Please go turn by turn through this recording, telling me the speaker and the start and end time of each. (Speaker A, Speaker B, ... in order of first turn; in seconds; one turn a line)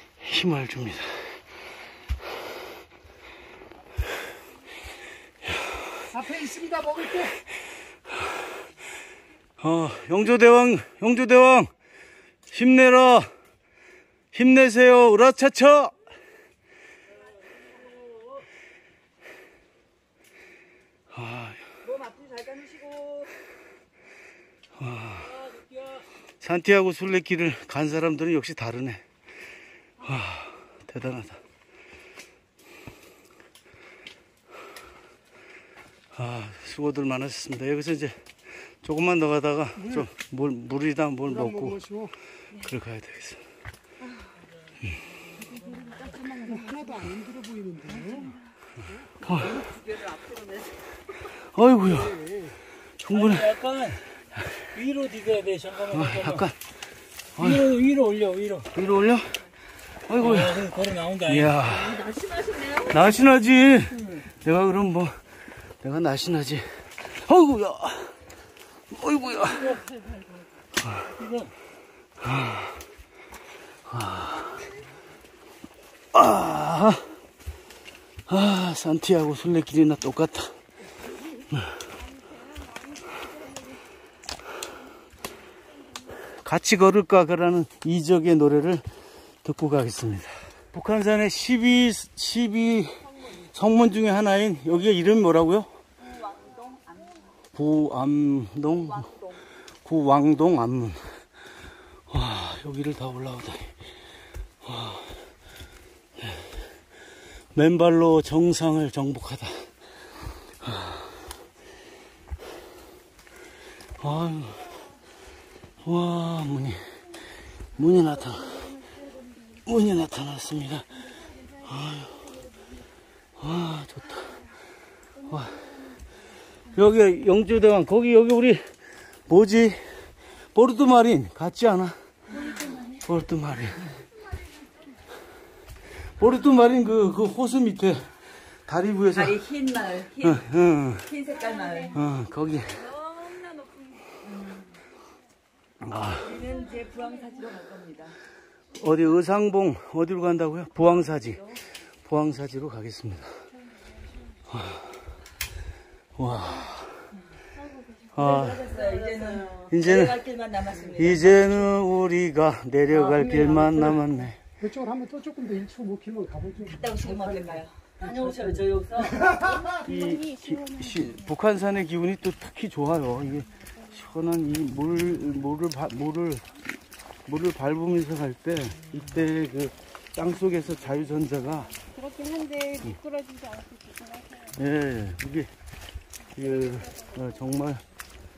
Speaker A: 0.2-1.4
Speaker A: 5.5-5.7
Speaker B: 6.1-7.4
Speaker A: 9.6-11.7
Speaker A: 12.5-13.3
Speaker A: 14.3-15.9
Speaker C: 17.7-18.2
Speaker A: 21.1-21.6
Speaker D: 21.8-23.3
Speaker A: 24.8-25.4
Speaker C: 25.4-26.0
Speaker A: 26.4-29.0
Speaker A: 30.0-31.4
Speaker A: 36.1-41.8
Speaker B: 39.8-40.1
Speaker B: 41.2-42.1
Speaker A: 42.6-43.4
Speaker C: 45.4-45.9
Speaker E: 45.7-46.9
Speaker B: 46.4-48.3
Speaker A: 49.2-49.6
Speaker D: 49.2-50.7
Speaker A: 51.5-52.2
Speaker B: 51.8-52.5
Speaker A: 53.0-53.6
Speaker C: 53.1-54.0
Speaker C: 54.7-56.5
Speaker A: 55.9-56.5
Speaker A: 57.4-57.7
Speaker C: 57.4-58.7
Speaker A: 58.7-59.4
Speaker A: 60.1-62.1
Speaker C: 60.2-61.5
Speaker D: 61.5-63.1
Speaker A: 62.9-65.2
Speaker A: 65.8-68.2
Speaker A: 68.9-69.8
Speaker C: 69.5-70.1
Speaker A: 70.8-71.2
Speaker C: 71.1-71.5
Speaker A: 72.2-72.8
Speaker A: 73.8-74.6
Speaker A: 76.1-77.1
Speaker A: 78.3-80.5
Speaker E: 82.1-83.8
Speaker A: 86.3-88.8
Speaker A: 89.4-95.7
Speaker D: 96.0-97.2
Speaker A: 97.5-99.1
Speaker D: 98.9-99.4
Speaker A: 99.8-101.2
Speaker A: 102.1-103.8
Speaker A: 104.6-105.2
Speaker A: 106.2-106.5
Speaker A: 107.5-109.7
Speaker A: 110.6-111.3
Speaker A: 114.0-114.7
Speaker A: 115.8-116.8
Speaker A: 117.8-118.7
Speaker E: 117.8-119.6
Speaker A: 119.7-121.0
Speaker E: 121.2-122.5
Speaker A: 121.6-122.2
Speaker A: 123.4-124.4
Speaker E: 125.1-126.0
Speaker A: 125.3-125.5
Speaker A: 126.7-128.6
Speaker A: 129.3-129.8
Speaker A: 130.5-132.0
Speaker E: 132.3-133.0
Speaker A: 133.0-133.9
Speaker E: 134.3-134.7
Speaker A: 136.2-138.1
Speaker A: 138.7-139.4
Speaker D: 139.1-140.5
Speaker A: 140.2-141.1
Speaker D: 141.0-142.0
Speaker E: 141.3-141.9
Speaker A: 141.9-142.9
Speaker A: 145.8-146.4
Speaker D: 146.2-148.2
Speaker A: 148.8-151.4
Speaker D: 151.3-151.6
Speaker A: 152.0-153.3
Speaker A: 154.5-155.0
Speaker A: 156.2-157.1
Speaker E: 157.6-159.5
Speaker A: 158.1-158.7
Speaker D: 158.1-161.7
Speaker A: 159.7-160.2
Speaker A: 160.9-164.4
Speaker B: 163.1-163.8
Speaker B: 164.6-168.5
Speaker D: 166.7-167.7
Speaker C: 168.0-169.2
Speaker B: 169.0-169.8
Speaker E: 169.2-171.2
Speaker A: 169.8-176.4
Speaker A: 177.2-181.7
Speaker E: 181.8-184.6
Speaker A: 184.5-185.5
Speaker A: 186.3-187.8
Speaker E: 186.4-187.3